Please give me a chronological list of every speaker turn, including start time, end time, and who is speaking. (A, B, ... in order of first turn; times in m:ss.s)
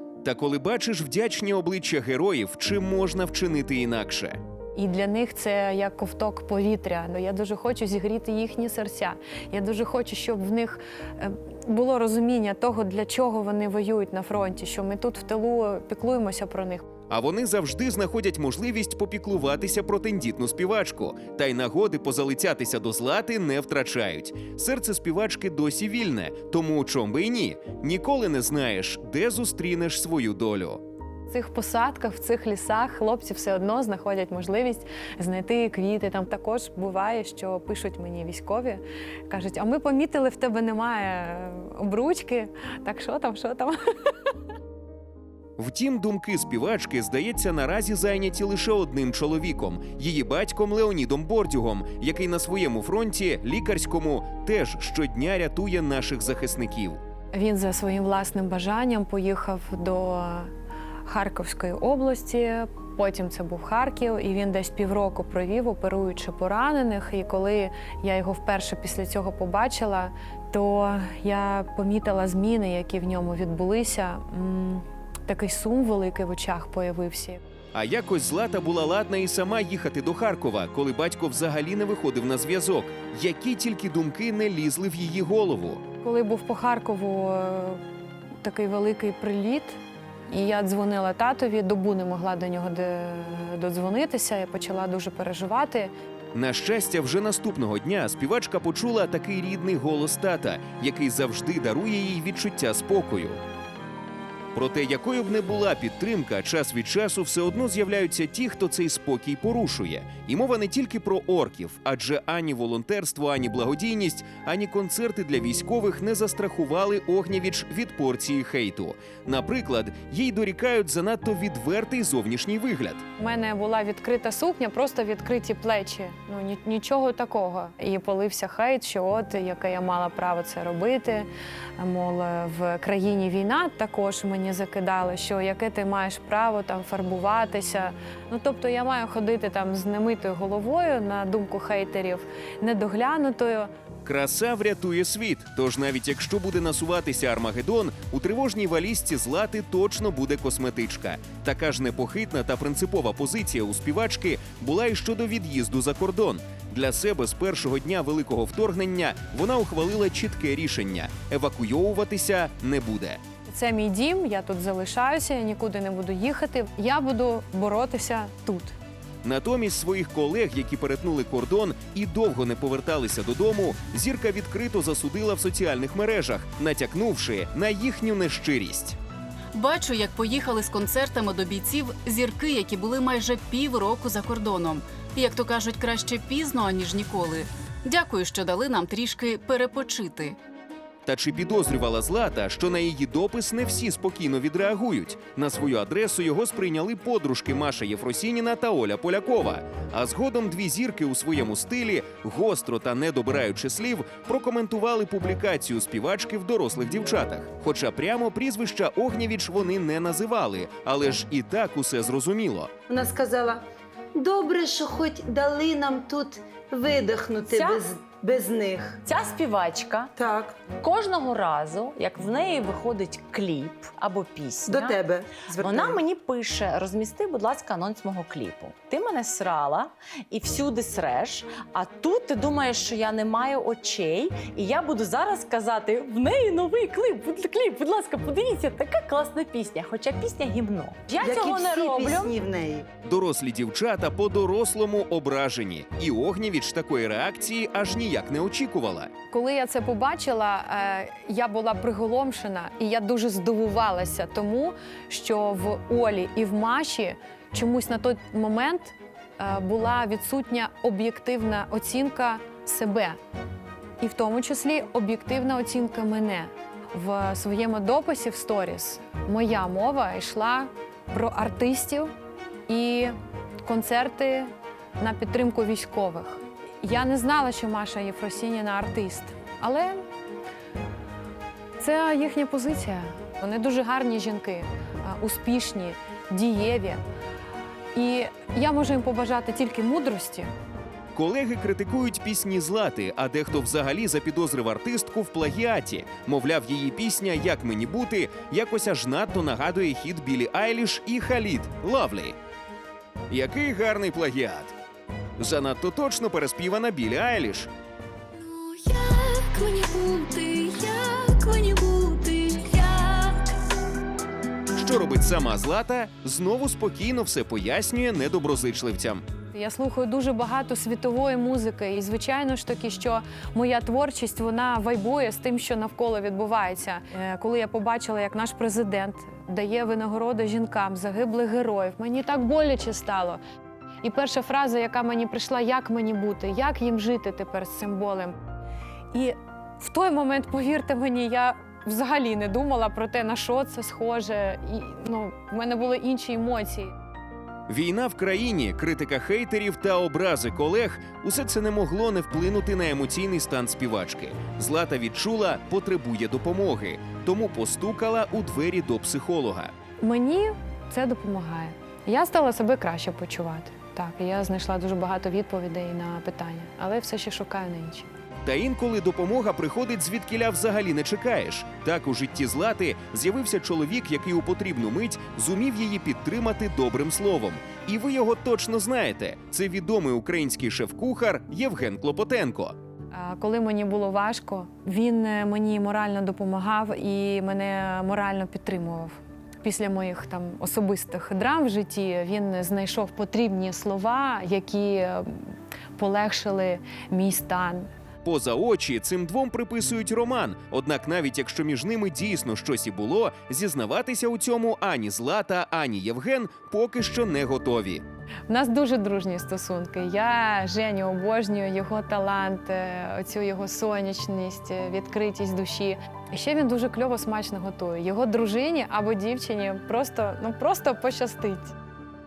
0:00.2-0:04.4 A
0:04.8-0:16.8 B
0:17.1-0:30.8 A
0:31.3-0:43.8 B
0:45.6-0:57.0 A
0:57.3-1:00.5 B
1:01.0-1:17.4 B
1:17.7-1:25.8 A
1:26.0-1:27.8 B
1:28.4-1:29.8 B
1:30.3-1:35.9 B
1:36.3-1:43.4 A
1:44.6-2:03.0 A
2:03.2-2:23.7 B
2:24.0-2:43.2 A
2:43.5-2:48.8 B
2:49.2-2:59.0 A
2:59.5-3:10.4 C
3:11.1-3:32.7 A
3:32.9-3:33.6 D
3:34.2-3:39.0 D
3:37.5-3:37.8 E
3:39.1-3:40.1 E
3:40.2-3:40.7 D
3:40.8-4:02.4 E
3:44.6-3:46.0 D
4:01.2-4:02.9 D
4:03.0-4:09.1 A
4:09.3-4:23.2 B
4:24.0-4:32.1 B
4:32.7-4:40.0 B
4:41.8-4:47.0 B
4:47.9-4:50.5 B
4:51.1-5:02.4 A
5:03.3-5:04.7 A
5:05.4-5:07.7 A
5:08.3-5:13.6 F
5:14.8-5:19.2 A
5:19.5-5:33.4 B
5:34.0-5:38.4 B
5:39.1-5:46.9 B
5:47.7-5:59.7 A
6:00.0-6:08.1 B
6:08.4-6:22.8 A
6:23.1-6:37.9 B
6:38.2-6:48.0 A
6:48.5-7:01.8 B